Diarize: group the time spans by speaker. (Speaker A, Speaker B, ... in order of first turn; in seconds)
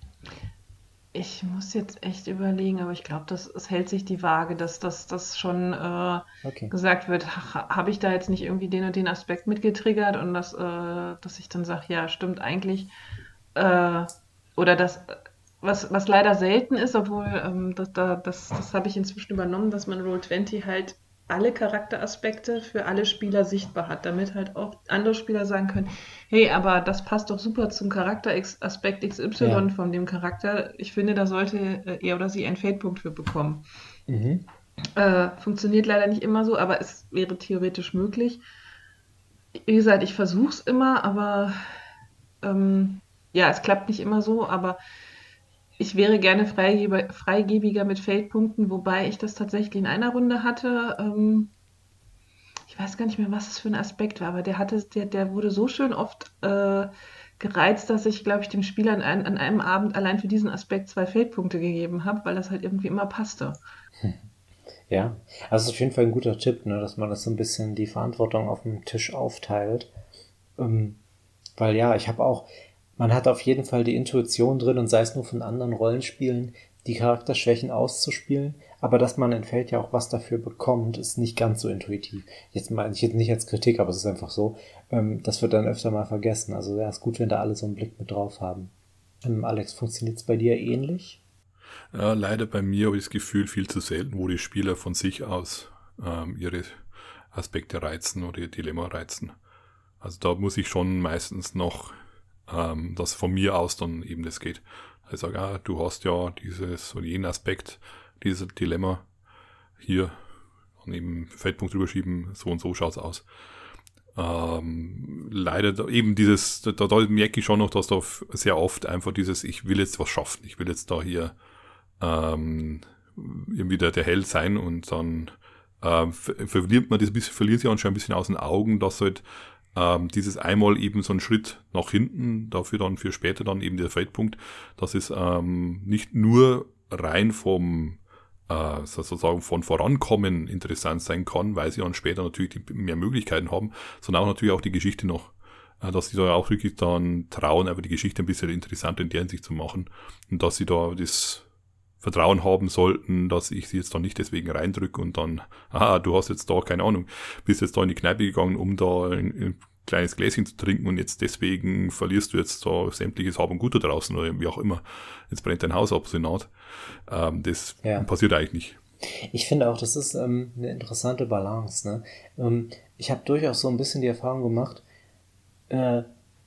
Speaker A: 1.1-12.9, 13.5-33.6, 34.9-38.4, 39.5-41.6, 42.4-44.8, 45.8-51.5, 52.7-63.6
Speaker B: 6.4-6.7, 29.4-29.7, 34.1-34.5, 64.0-64.2, 64.9-69.9, 70.6-71.0, 71.6-88.7, 89.2-91.2, 167.8-168.1, 169.0-174.8, 175.7-176.1
Speaker C: 91.9-99.3, 100.0-109.1, 109.8-113.3, 114.1-121.4, 122.0-151.4, 152.0-168.8